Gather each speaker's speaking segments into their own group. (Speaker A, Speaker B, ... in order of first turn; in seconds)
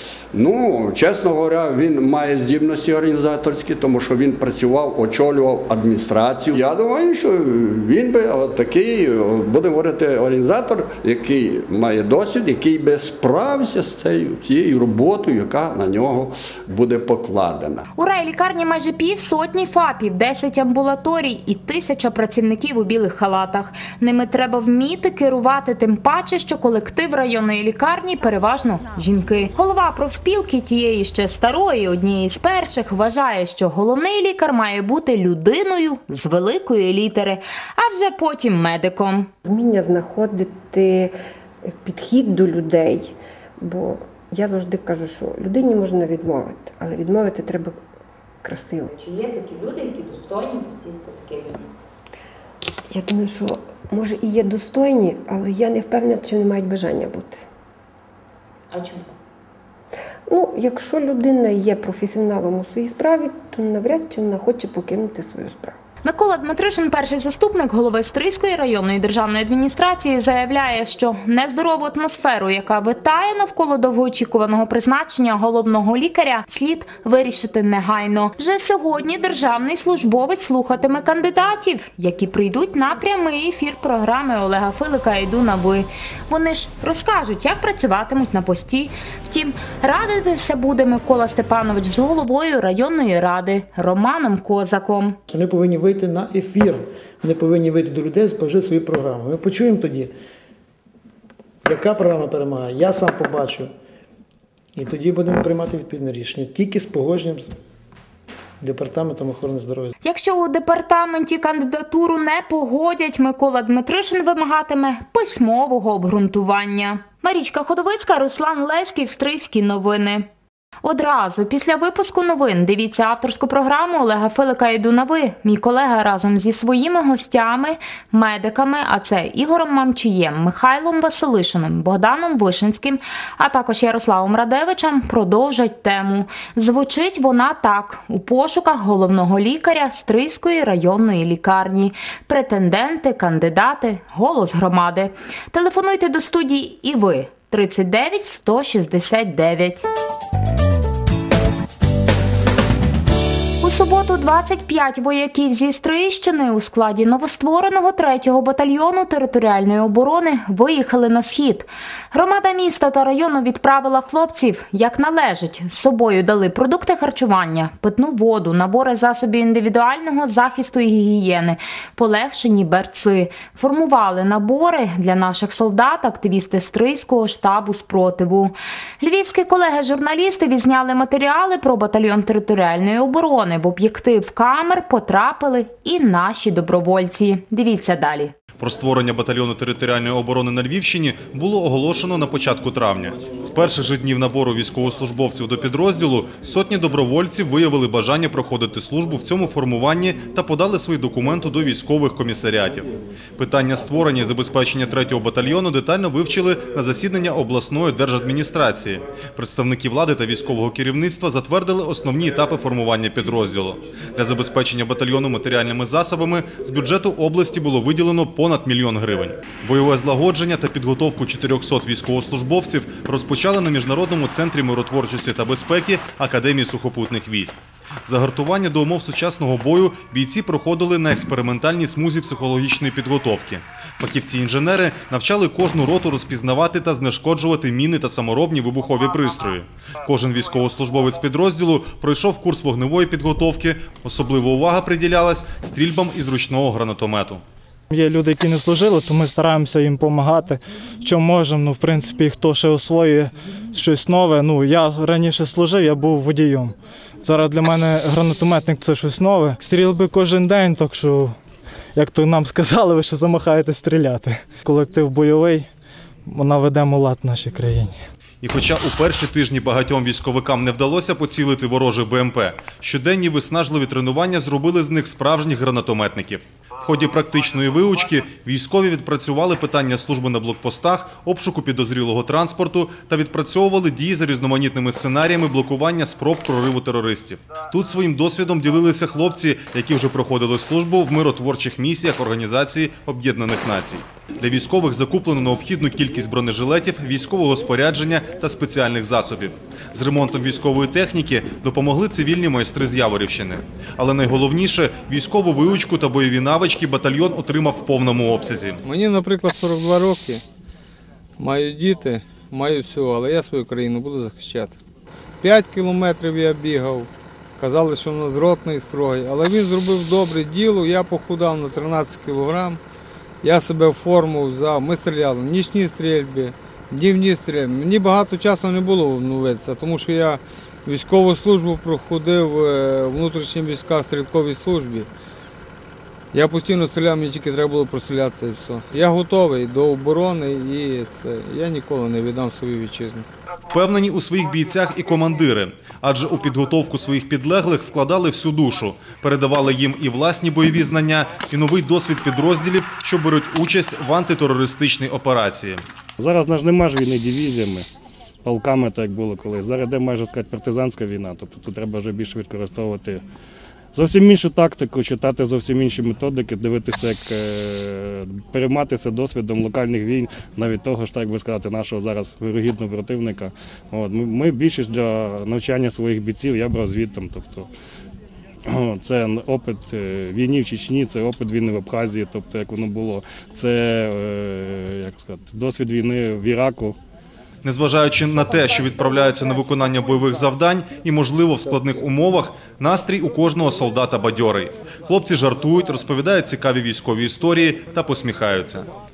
Speaker A: 0.3-17.9
Speaker B: 18.0-39.3, 48.9-51.9, 58.7-59.1, 66.0-95.2, 110.0-120.3, 120.8-149.9, 153.6-188.3
Speaker C: 39.5-41.1, 41.7-47.8, 48.4-48.9, 52.9-57.5, 60.3-65.8
Speaker D: 95.3-100.1, 101.7-103.7, 104.8-107.5, 108.6-109.9
Speaker E: 188.6-247.4, 268.4-308.8, 343.7-355.8, 387.6-398.9
Speaker F: 247.9-261.4, 261.9-265.7, 266.3-267.9
Speaker G: 308.9-310.4, 311.4-314.8, 315.4-322.8, 323.4-335.1, 336.3-343.3
Speaker H: 356.2-357.9, 358.4-363.2, 363.9-377.7, 378.7-387.0